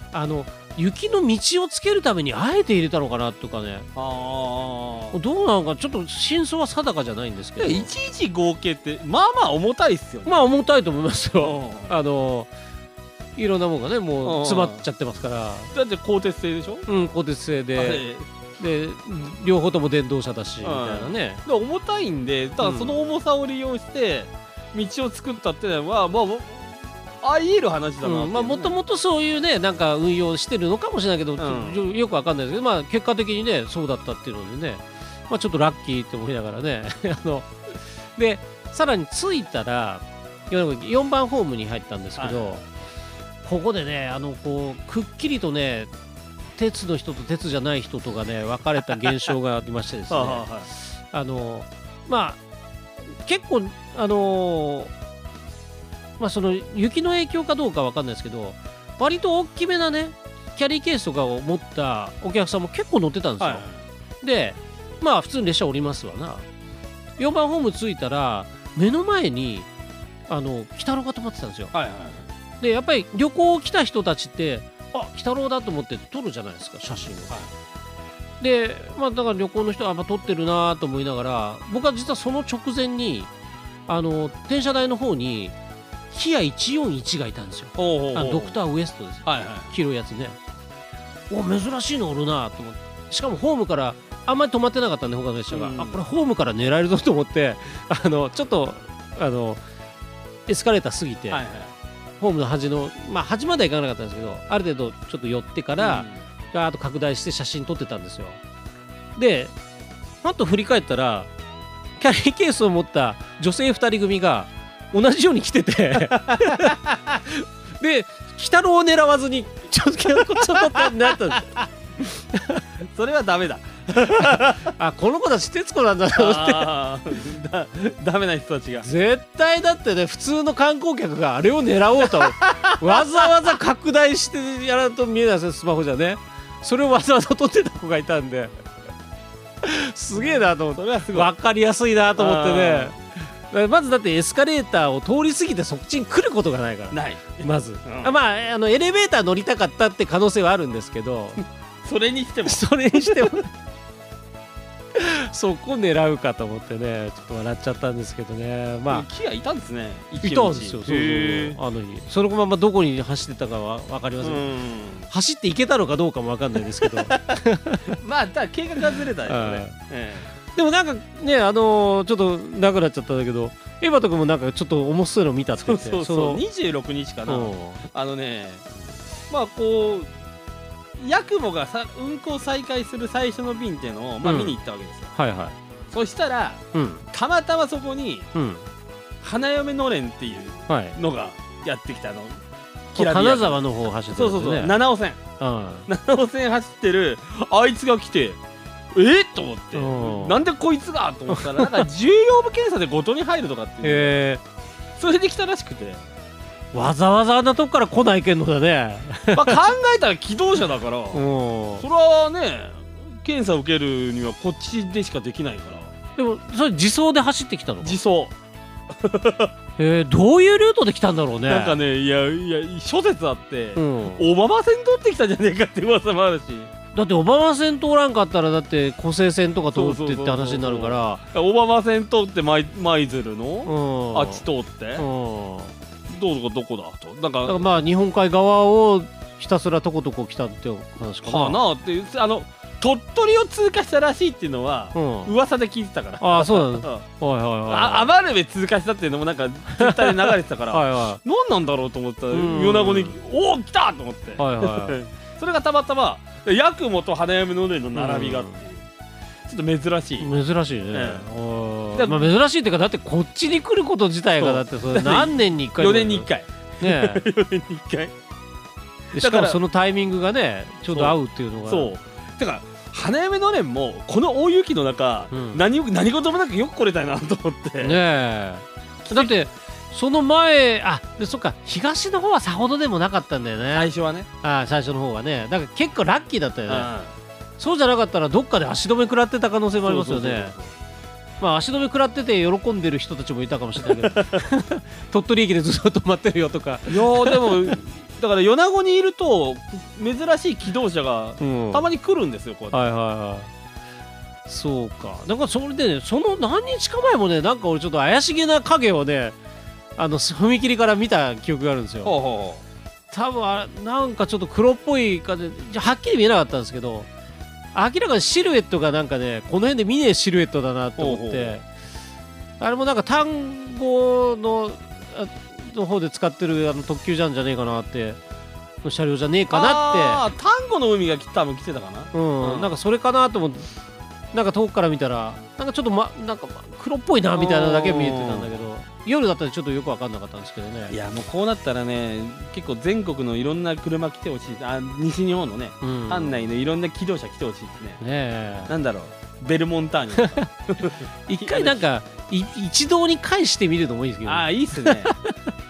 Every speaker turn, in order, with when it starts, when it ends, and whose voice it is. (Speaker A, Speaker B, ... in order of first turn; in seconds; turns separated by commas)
Speaker A: 0.1-3.9, Speaker B: 4.0-5.2, Speaker A: 5.1-7.9, Speaker B: 7.6-10.3, Speaker A: 10.2-12.5, Speaker B: 11.4-11.9, Speaker A: 13.3-15.7, Speaker B: 14.2-14.8, Speaker B: 15.7-16.9, Speaker A: 16.9-18.0, Speaker B: 17.8-18.2, Speaker A: 18.6-21.4, Speaker B: 20.6-28.8, Speaker A: 22.6-22.9, Speaker A: 28.0-42.6, Speaker B: 31.4-31.8, Speaker B: 42.2-42.5, Speaker A: 43.4-45.9, Speaker A: 46.5-52.4, Speaker B: 50.1-50.7, Speaker A: 53.1-54.9, Speaker A: 56.2-63.6, Speaker B: 63.4-63.8, Speaker A: 64.2-66.4, Speaker A: 67.2-69.7, Speaker A: 70.3-71.7, Speaker B: 71.7-72.3, Speaker A: 72.6-77.4, Speaker A: 78.4-83.3, Speaker A: 83.9-85.5, Speaker A: 86.1-90.4, Speaker B: 87.8-88.6, Speaker B: 89.2-89.7, Speaker A: 91.3-99.6, Speaker B: 95.5-96.0, Speaker A: 100.5-101.4, Speaker B: 101.3-101.7, Speaker A: 102.2-108.4, Speaker B: 105.8-106.2, Speaker A: 109.2-109.5, Speaker A: 110.2-111.3, Speaker A: 112.0-121.5, Speaker B: 120.5-121.6, Speaker A: 122.3-122.6, Speaker B: 122.9-124.7, Speaker A: 124.1-126.7, Speaker B: 126.2-128.9, Speaker A: 128.8-138.5, Speaker B: 132.0-133.5, Speaker A: 139.6-151.4, Speaker B: 140.2-141.3, Speaker B: 142.2-142.9, Speaker B: 146.9-148.2, Speaker B: 151.8-153.3, Speaker A: 152.4-153.5, Speaker A: 154.9-159.1, Speaker B: 158.9-161.6, Speaker A: 160.2-164.4, Speaker B: 164.2-165.1, Speaker A: 165.1-168.0, Speaker B: 168.0-170.3, Speaker A: 169.2-169.8, Speaker A: 170.5-176.4, Speaker B: 175.6-178.7, Speaker A: 177.3-177.8, Speaker B: 179.3-180.1, Speaker B: 181.0-185.1, Speaker A: 184.2-184.6, Speaker A: 185.2-185.5, Speaker B: 185.9-186.6, Speaker A: 186.7-187.0, Speaker B: 187.1-188.3, Speaker A: 188.3-188.6, Speaker B: 189.2-192.4, Speaker A: 190.7-190.9, Speaker B: 192.9-195.2, Speaker A: 192.9-194.7, Speaker A: 195.4-195.9, Speaker B: 195.9-198.4, Speaker B: 198.9-204.1, Speaker A: 199.7-200.4, Speaker A: 201.3-201.8, Speaker A: 203.8-204.4, Speaker B: 205.0-206.0, Speaker A: 206.7-209.6, Speaker B: 209.3-211.2, Speaker A: 211.1-211.9, Speaker B: 211.8-215.9, Speaker A: 216.2-218.0, Speaker B: 217.8-218.3, Speaker B: 218.9-219.5, Speaker A: 219.8-221.8, Speaker B: 221.5-226.7, Speaker A: 223.7-224.3, Speaker A: 226.9-231.2, Speaker B: 229.7-235.0, Speaker A: 233.7-234.4, Speaker A: 235.0-235.7, Speaker B: 236.1-237.6, Speaker A: 237.4-241.6, Speaker B: 241.2-247.0, Speaker A: 244.9-245.3, Speaker A: 246.2-248.1, Speaker B: 247.7-258.8, Speaker A: 249.8-251.2, Speaker A: 252.3-253.2, Speaker A: 254.4-255.0, Speaker A: 257.9-258.6, Speaker B: 259.4-260.3, Speaker A: 260.2-266.3, Speaker B: 260.9-261.2, Speaker B: 261.9-262.3, Speaker B: 264.4-268.1, Speaker A: 266.8-267.2, Speaker A: 269.1-271.9, Speaker B: 269.1-269.6, Speaker B: 270.9-278.0, Speaker A: 275.3-275.6, Speaker A: 277.8-283.9, Speaker B: 279.1-279.3, Speaker B: 283.7-284.3, Speaker A: 284.4-286.9, Speaker B: 286.7-287.1, Speaker A: 287.6-290.5, Speaker B: 289.8-290.7, Speaker A: 291.4-297.8, Speaker B: 294.0-294.4, Speaker B: 296.9-302.8, Speaker A: 301.4-301.9, Speaker A: 302.7-303.5, Speaker A: 304.5-309.4, Speaker A: 309.9-312.1, Speaker B: 312.0-312.6, Speaker A: 313.1-317.1, Speaker A: 317.7-321.6, Speaker B: 321.0-321.6, Speaker A: 322.6-328.2, Speaker A: 328.8-330.2, Speaker B: 329.5-332.7, Speaker A: 332.1-333.7, Speaker A: 334.3-341.0, Speaker B: 337.4-338.5, Speaker B: 340.9-348.0, Speaker A: 345.8-346.5, Speaker A: 348.0-348.7, Speaker B: 348.7-351.8, Speaker A: 351.3-355.4, Speaker B: 354.2-355.1